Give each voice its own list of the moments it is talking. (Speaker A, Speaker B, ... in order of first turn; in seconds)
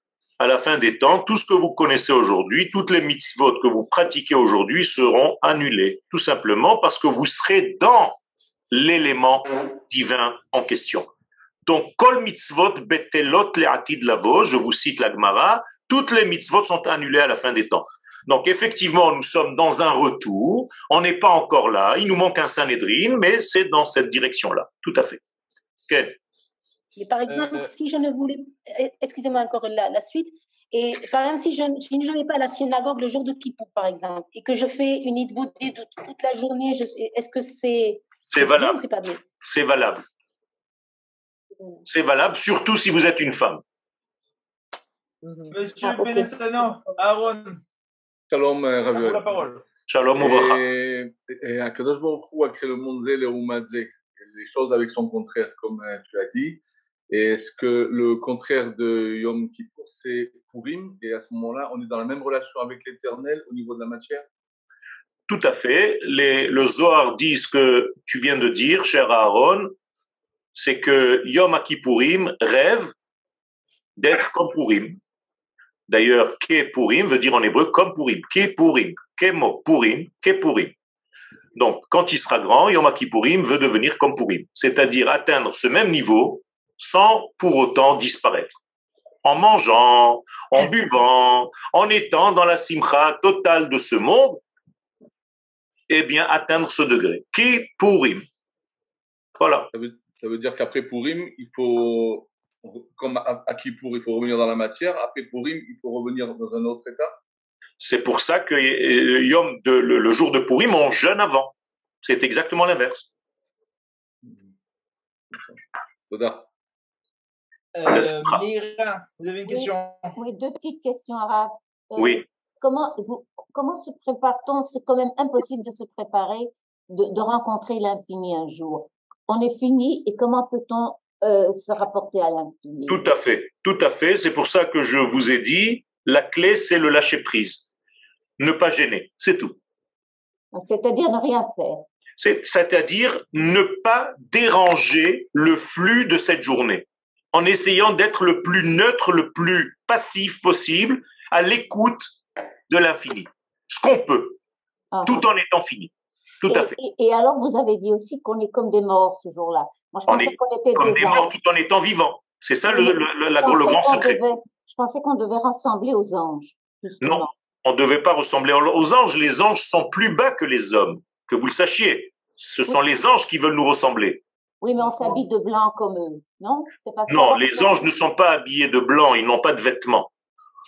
Speaker A: 0.4-8.2, 8.7-11.1, 11.7-25.2, 25.9-26.2, 38.3-38.8, 39.4-40.0, 41.8-43.6, 49.9-50.6, 65.3-69.7, 70.5-72.9, 74.0-75.0, 75.9-80.7, 81.5-88.6, 89.2-94.4, 95.9-98.3, 99.4-99.7, 107.8-113.1, 117.9-118.4, 122.0-122.2, 132.9-137.7, 138.4-139.6, 142.2-152.2, 152.7-154.4, 155.0-156.8, 160.1-164.2, 167.0-174.2, 177.1-180.1
Speaker B: 26.9-39.2, 45.8-46.4
Speaker C: 27.3-27.7, 45.5-47.6, 48.9-49.6, 117.7-120.1
Speaker D: 48.3-49.4, 50.2-64.2, 99.7-107.2, 114.2-114.5, 116.1-116.5
Speaker E: 119.5-133.1, 140.5-141.8, 154.9-155.3, 156.4-161.3, 162.6-167.3, 174.6-177.9